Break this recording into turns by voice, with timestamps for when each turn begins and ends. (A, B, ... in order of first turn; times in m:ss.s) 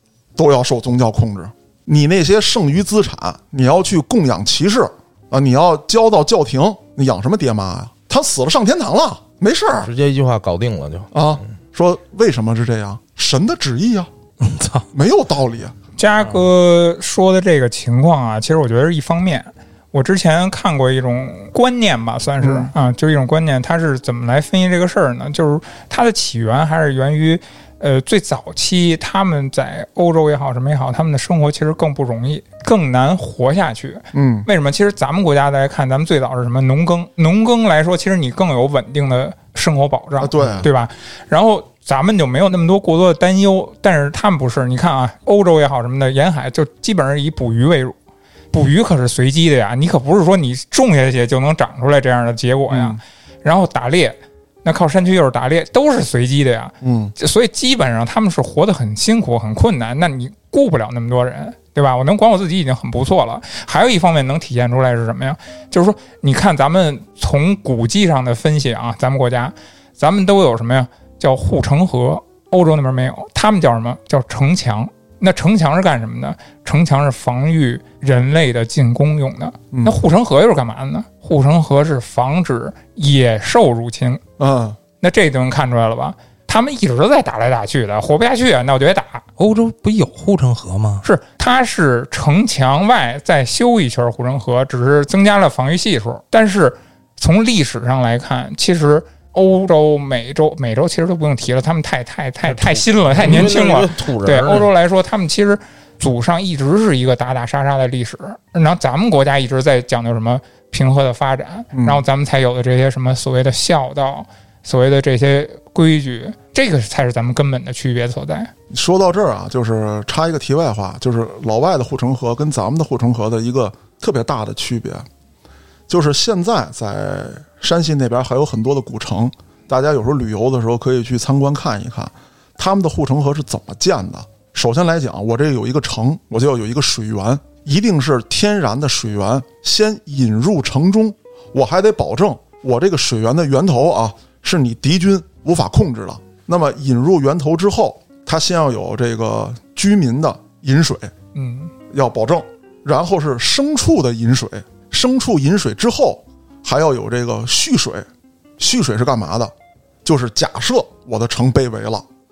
0:00.4-0:09.9 A
0:09.8-0:11.1 B
0:11.1-0:14.1 A
0:14.4-0:14.8 C
0:14.9-0:15.7 A
0:16.0-0:47.9 D
0:22.4-0:22.7 A
0:34.1-0:34.5 A
0:40.2-0:40.7 A
0:48.5-1:24.2 D
0:52.7-0:53.0 A
0:56.8-0:57.1 A
1:19.7-1:20.0 A
1:24.4-1:24.8 A
1:25.0-1:29.2 D
1:29.4-1:31.0 C
1:31.0-1:58.5 D
1:42.5-1:44.7 B
1:51.7-1:52.0 A
1:58.7-2:05.0 A
2:05.9-2:31.1 A
2:31.3-2:31.7 D
2:31.9-2:38.1 A
2:38.6-2:39.5 A
2:40.0-2:42.0 A